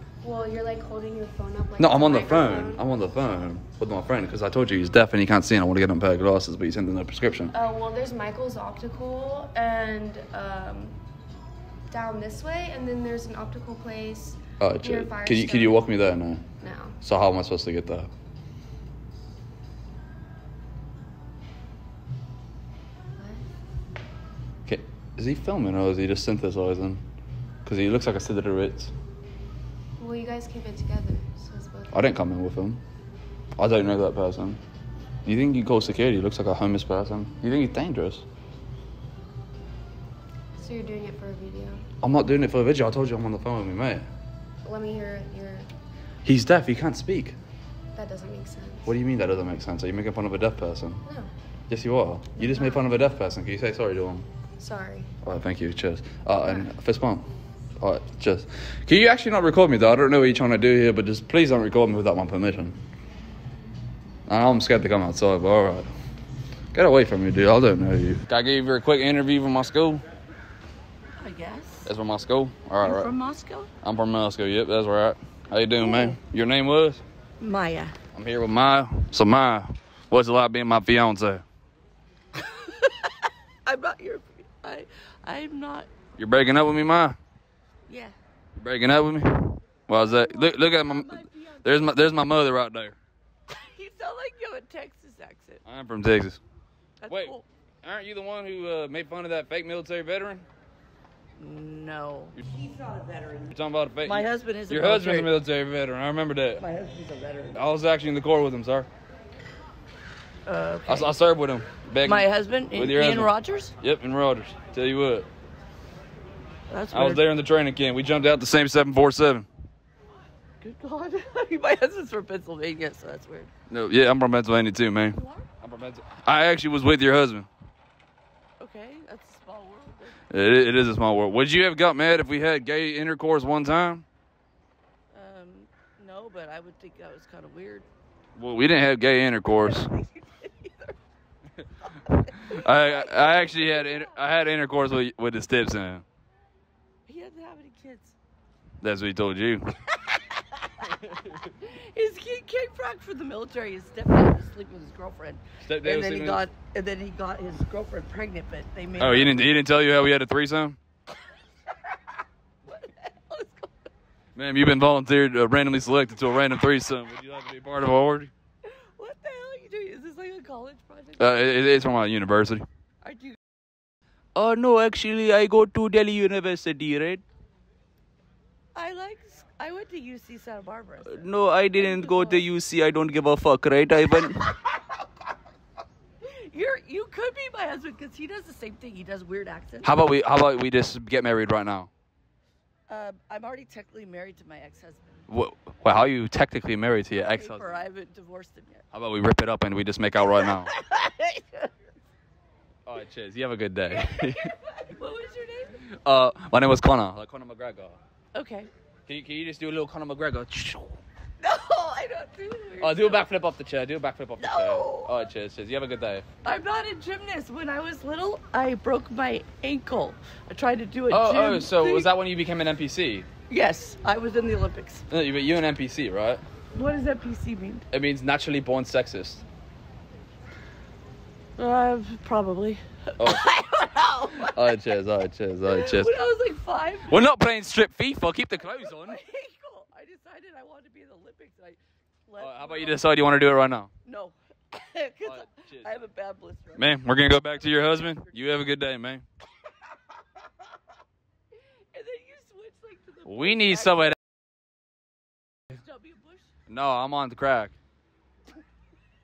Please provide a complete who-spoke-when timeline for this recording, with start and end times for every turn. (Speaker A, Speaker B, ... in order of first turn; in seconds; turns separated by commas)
Speaker A: 0.2-2.8, Speaker B: 1.8-7.5, Speaker A: 7.5-11.0, Speaker A: 11.9-15.9, Speaker B: 14.6-16.4, Speaker A: 16.6-17.0, Speaker B: 17.0-18.1, Speaker A: 23.1-23.4, Speaker B: 24.6-27.0, Speaker B: 27.6-28.9, Speaker A: 30.0-32.0, Speaker B: 31.9-32.8, Speaker B: 33.6-34.6, Speaker B: 35.2-38.2, Speaker A: 40.6-41.9, Speaker B: 42.0-44.0, Speaker A: 44.6-45.7, Speaker B: 46.2-47.4, Speaker A: 47.9-48.9, Speaker B: 48.9-51.0, Speaker A: 51.0-51.3, Speaker B: 51.7-54.2, Speaker A: 52.4-52.8, Speaker A: 54.6-55.1, Speaker B: 55.2-57.3, Speaker B: 57.8-62.8, Speaker B: 64.3-65.9, Speaker B: 66.7-70.0, Speaker C: 71.2-71.9, Speaker B: 71.8-73.1, Speaker C: 72.8-73.7, Speaker B: 73.8-77.0, Speaker C: 75.8-76.2, Speaker C: 77.4-78.0, Speaker B: 78.1-81.4, Speaker C: 82.3-85.9, Speaker B: 86.2-87.2, Speaker C: 87.9-88.1, Speaker B: 88.6-93.0, Speaker C: 90.0-91.9, Speaker C: 93.5-95.6, Speaker B: 95.6-96.4, Speaker C: 97.0-97.4, Speaker B: 97.1-100.4, Speaker C: 101.4-103.5, Speaker B: 103.5-106.6, Speaker C: 104.0-105.3, Speaker C: 106.6-107.6, Speaker B: 107.5-108.9, Speaker C: 110.5-111.2, Speaker B: 110.8-115.3, Speaker C: 112.0-113.7, Speaker C: 116.7-117.2, Speaker B: 116.9-119.5, Speaker C: 120.6-123.5, Speaker B: 123.7-127.5, Speaker C: 125.1-125.5, Speaker C: 128.6-130.2, Speaker B: 130.3-134.0, Speaker C: 135.1-137.8, Speaker B: 138.3-139.9, Speaker C: 139.5-141.0, Speaker C: 141.9-144.2, Speaker B: 142.1-146.0, Speaker C: 147.1-148.1, Speaker B: 148.8-150.0, Speaker C: 150.2-159.6, Speaker B: 155.6-156.4, Speaker B: 159.0-160.8, Speaker C: 162.6-163.9, Speaker B: 164.3-168.3, Speaker C: 168.6-171.3, Speaker B: 171.2-172.7, Speaker C: 173.0-173.3, Speaker B: 174.3-177.2, Speaker C: 178.7-182.4, Speaker B: 181.0-184.6, Speaker C: 186.2-189.9, Speaker B: 189.8-191.9, Speaker C: 192.9-195.2, Speaker B: 195.3-197.8, Speaker C: 197.1-198.8, Speaker B: 198.9-200.7, Speaker C: 200.6-201.7, Speaker B: 202.8-204.5, Speaker C: 204.0-205.8, Speaker B: 205.7-208.0, Speaker C: 208.3-208.7, Speaker B: 209.1-211.0, Speaker C: 211.4-213.3, Speaker B: 212.8-216.2, Speaker C: 214.4-215.1, Speaker C: 216.4-222.1, Speaker B: 221.1-223.3, Speaker C: 223.5-225.1, Speaker B: 225.1-226.4, Speaker C: 226.7-227.8, Speaker B: 227.9-229.4, Speaker C: 231.6-234.8, Speaker B: 233.2-233.6, Speaker B: 234.4-236.1, Speaker C: 235.7-237.2, Speaker B: 237.0-239.2, Speaker C: 238.7-243.1, Speaker B: 242.4-243.9, Speaker C: 244.0-247.0, Speaker B: 245.2-246.0, Speaker B: 246.7-249.2, Speaker C: 251.9-254.2, Speaker B: 253.2-254.2, Speaker C: 255.8-256.5, Speaker B: 256.7-257.7